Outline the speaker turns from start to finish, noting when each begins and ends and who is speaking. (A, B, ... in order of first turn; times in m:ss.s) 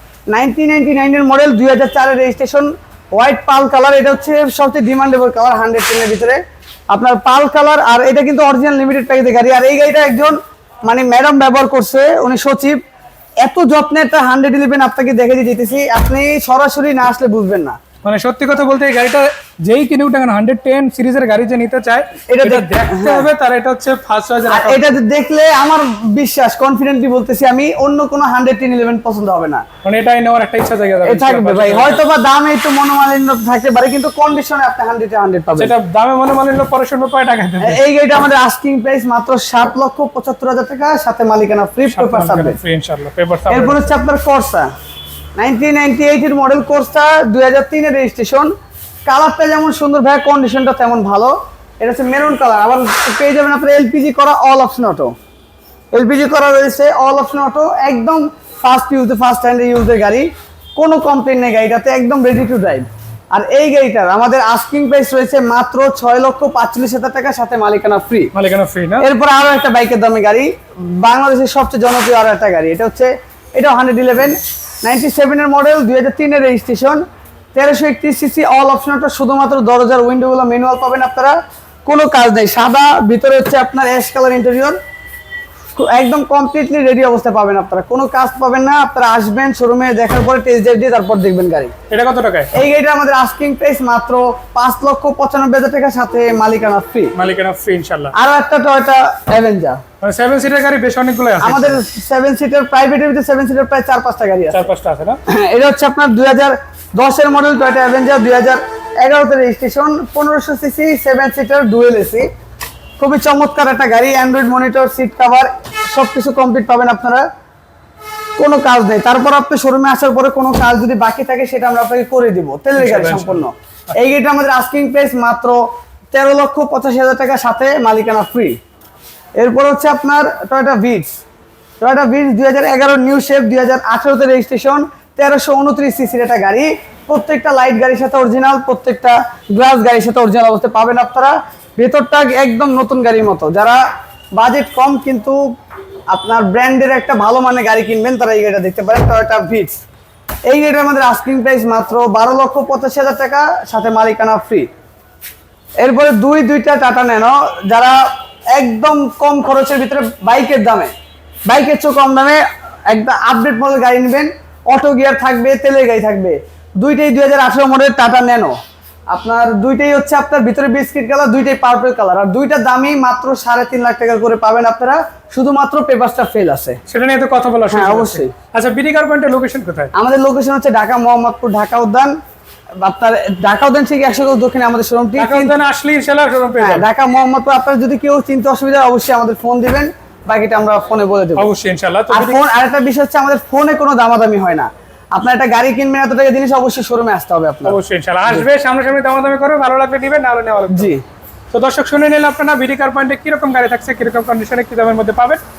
0:00.3-0:12.8 A
0:13.4-0:17.8 A
0:18.0-0:24.9 B
0:22.3-0:23.3 A
0:24.5-0:29.6 A
0:29.8-0:32.0 B
0:31.0-0:35.7 A
0:35.6-0:37.8 B
0:37.6-0:42.6 A
0:41.9-0:43.9 B
0:43.5-0:44.7 A
0:45.4-0:48.5 A
0:49.1-0:55.1 A
0:55.9-1:08.3 A
1:08.3-1:09.1 B
1:09.0-1:17.0 A
1:17.5-1:24.8 A
1:25.8-1:31.7 A
1:31.9-1:32.5 B
1:32.5-1:37.1 A
1:37.2-1:38.1 B
1:38.1-1:39.8 A
1:40.0-1:41.8 B
1:41.4-1:44.6 A
1:44.5-1:45.2 B
1:45.3-1:52.3 A
1:53.0-1:57.2 A
1:58.4-2:05.6 A
2:02.8-2:03.4 B
2:06.1-2:08.6 A
2:09.4-2:11.2 A
2:11.8-2:23.8 A
2:24.4-2:25.4 A
2:26.1-2:29.8 A
2:30.5-2:34.7 A
2:35.8-2:40.9 A
2:41.5-2:48.6 A
2:49.1-2:56.8 A
2:56.9-2:59.9 B
2:57.7-2:58.3 A
2:59.9-3:02.1 A
3:02.8-3:05.5 A
3:05.2-3:06.9 B
3:06.6-3:11.5 A
3:11.4-3:12.4 B
3:12.1-3:17.8 A
3:17.6-3:20.9 B
3:20.7-3:21.0 A
3:21.5-3:25.4 B